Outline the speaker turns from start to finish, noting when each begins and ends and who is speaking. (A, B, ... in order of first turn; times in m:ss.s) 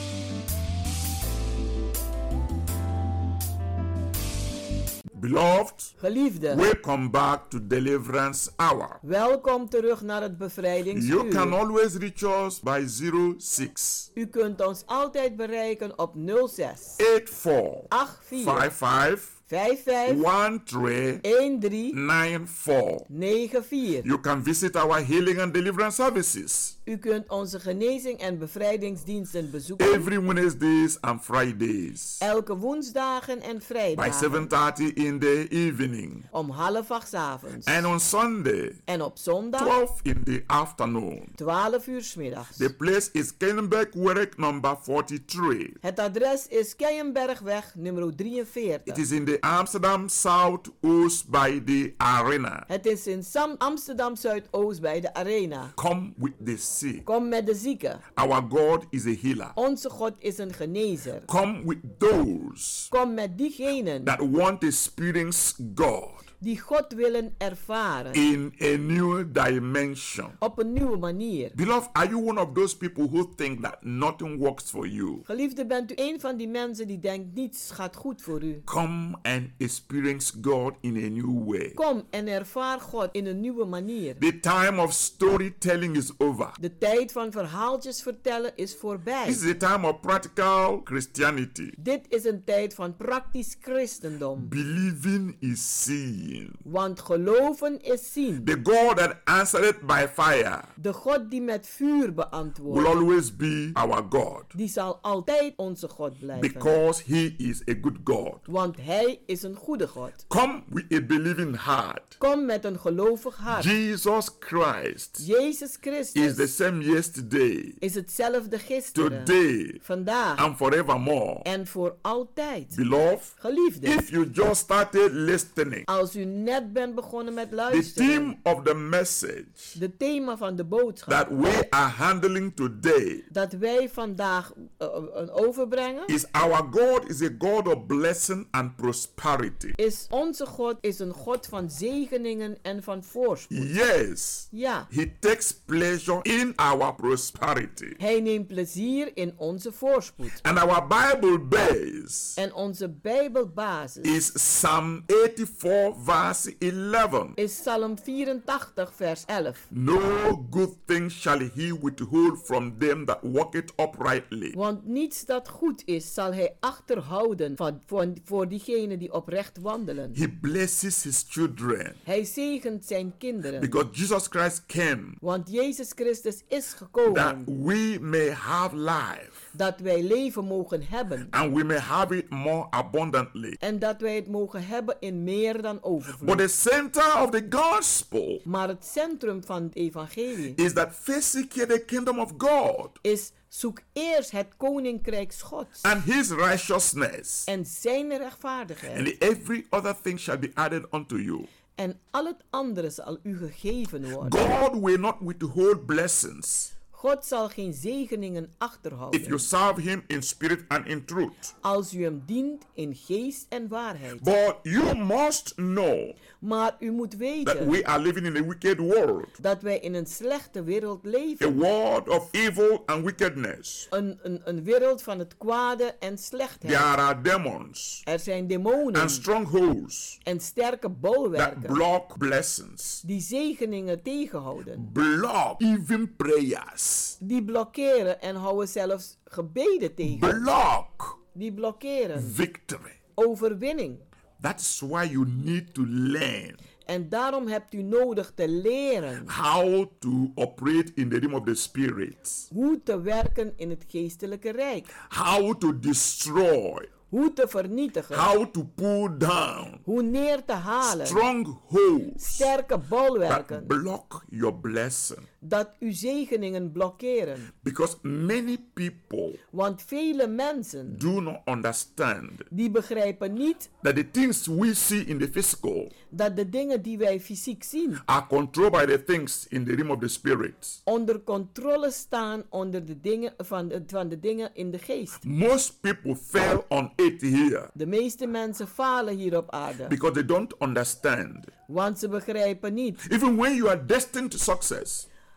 0:05.1-0:05.9 A
0:06.0-0:06.6 B
0:06.5-0:09.0 A
0:09.0-0:11.6 B
0:10.9-0:14.1 A
0:14.2-0:17.0 B
0:17.0-0:19.4 A
0:17.9-0:18.7 B
0:19.5-0:20.2 B
0:20.1-0:21.2 A
0:21.2-0:22.0 B
0:21.9-0:23.1 A
0:23.1-0:24.1 B
0:24.0-0:26.8 A
0:26.8-0:30.1 B
0:29.8-0:32.2 A
0:32.2-0:34.5 B
0:33.9-0:36.2 A
0:36.3-0:37.9 B
0:37.6-0:38.8 A
0:38.9-0:39.7 B
0:39.6-0:41.3 A
0:41.4-0:42.7 B
0:42.6-0:45.8 A
0:45.8-0:49.0 B
0:48.9-0:52.7 A
0:52.7-0:55.7 B
0:55.8-0:57.0 A
0:57.0-0:58.0 B
0:58.1-0:59.5 A
0:59.6-1:01.3 B
1:01.3-1:02.9 A
1:02.9-1:04.1 B
1:04.0-1:06.3 A
1:06.4-1:08.2 B
1:08.1-1:10.4 A
1:10.4-1:11.5 B
1:11.5-1:15.2 A
1:15.2-1:18.6 B
1:18.6-1:21.8 A
1:21.8-1:24.2 B
1:24.2-1:26.6 A
1:26.6-1:29.4 B
1:29.2-1:31.7 A
1:31.8-1:34.5 B
1:34.4-1:36.6 A
1:36.6-1:38.5 B
1:38.4-1:40.7 A
1:40.8-1:42.9 B
1:42.7-1:44.5 A
1:44.5-1:46.7 B
1:46.4-1:48.4 A
1:48.5-1:50.2 B
1:50.3-1:52.2 A
1:52.2-1:53.7 B
1:53.5-1:55.2 A
1:55.2-1:56.5 B
1:56.1-1:57.8 A
1:57.8-2:00.4 B
1:58.9-1:59.8 A
2:00.4-2:01.4 A
2:01.4-2:02.8 B
2:02.7-2:05.8 A
2:03.4-2:04.0 B
2:05.9-2:08.3 B
2:07.7-2:09.8 A
2:09.7-2:11.3 B
2:11.1-2:13.2 A
2:13.3-2:16.1 B
2:16.1-2:19.8 A
2:19.8-2:23.7 B
2:23.5-2:28.0 A
2:24.5-2:24.9 B
2:28.0-2:30.4 B
2:30.4-2:32.4 A
2:32.4-2:34.1 B
2:34.0-2:37.4 A
2:37.4-2:39.6 B
2:39.7-2:44.6 A
2:44.5-2:50.2 B
2:50.1-2:52.0 A
2:52.0-2:53.7 B
2:53.6-2:55.2 A
2:55.2-2:57.5 B
2:57.1-2:59.4 A
2:59.5-3:01.3 B
3:01.3-3:03.6 A
3:03.6-3:06.4 B
3:06.2-3:08.4 A
3:08.4-3:10.6 B
3:10.6-3:13.0 A
3:13.0-3:15.9 B
3:15.8-3:17.5 A
3:17.5-3:19.1 B
3:18.9-3:21.5 A
3:21.8-3:24.5 B
3:24.2-3:26.7 A
3:26.9-3:29.4 B
3:29.1-3:31.5 A
3:31.6-3:34.2 B
3:34.2-3:36.2 A
3:36.4-3:37.8 B
3:37.4-3:39.3 A
3:39.4-3:41.6 B
3:41.4-3:43.9 A
3:43.9-3:46.9 B
3:46.6-3:48.0 A
3:48.0-3:49.2 B
3:48.9-3:50.2 A
3:50.2-3:51.8 B
3:51.3-3:53.0 A
3:53.0-3:54.9 B
3:54.8-3:57.2 A
3:57.2-4:00.5 B
4:00.0-4:01.2 A
4:01.3-4:02.3 B
4:02.2-4:03.0 A
4:03.2-4:04.0 B
4:04.4-4:06.6 A
4:06.8-4:09.3 B
4:09.3-4:12.5 A
4:12.5-4:14.9 B
4:15.1-4:16.9 A
4:17.1-4:18.3 B
4:18.1-4:19.8 A
4:19.8-4:21.2 B
4:20.8-4:22.5 A
4:22.2-4:23.7 B
4:23.3-4:25.2 A
4:25.4-4:27.5 B
4:27.6-4:29.4 A
4:29.5-4:31.0 B
4:30.9-4:32.5 A
4:32.5-4:33.7 B
4:33.8-4:35.9 A
4:36.1-4:38.0 B
4:38.0-4:40.8 A
4:40.8-4:45.2 B
4:45.2-4:47.7 A
4:47.7-4:49.9 B
4:49.9-4:51.5 A
4:51.7-4:53.0 B
4:53.0-4:55.0 A